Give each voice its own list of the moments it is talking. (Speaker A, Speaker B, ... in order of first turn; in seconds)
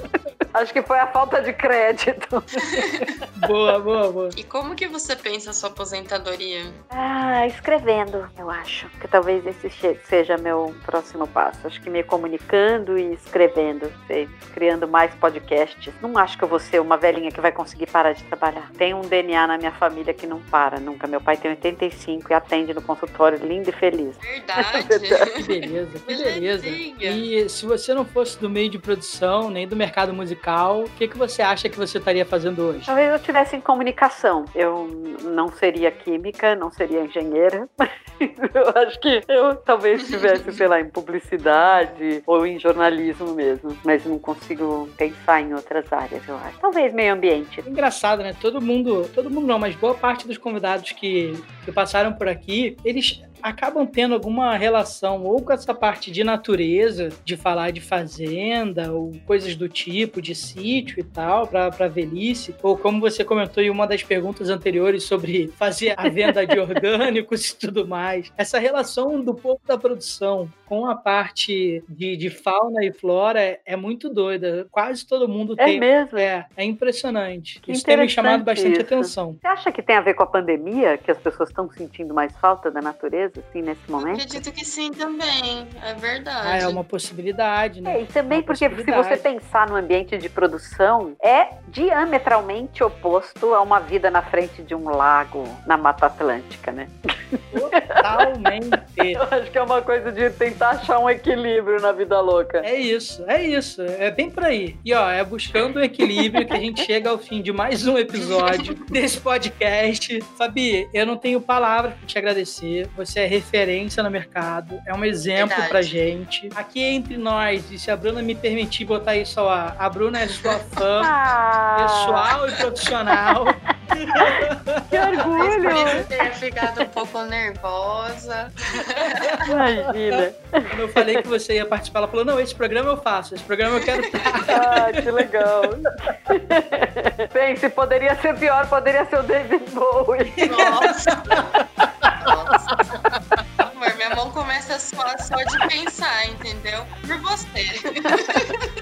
Speaker A: 0.5-3.1, 6.9-25.3, 32.9-47.6, 66.0-66.5, 75.6-76.3, 77.7-84.3, 87.8-98.3, 99.1-102.7, 106.1-106.5, 121.0-122.3, 124.1-126.1, 129.4-131.2, 134.5-140.7
Speaker B: 2.7-3.0, 4.3-6.8, 24.2-27.2, 40.1-40.6, 84.0-86.8, 108.3-108.7, 115.3-115.9, 120.3-120.8, 125.3-129.5, 133.8-134.4, 140.5-141.6, 142.1-143.0, 143.6-148.7
Speaker C: 3.4-4.3, 25.3-32.9, 47.6-79.4, 86.4-89.2, 97.5-99.2, 102.6-121.1, 121.8-126.0, 129.0-135.2, 140.4-143.2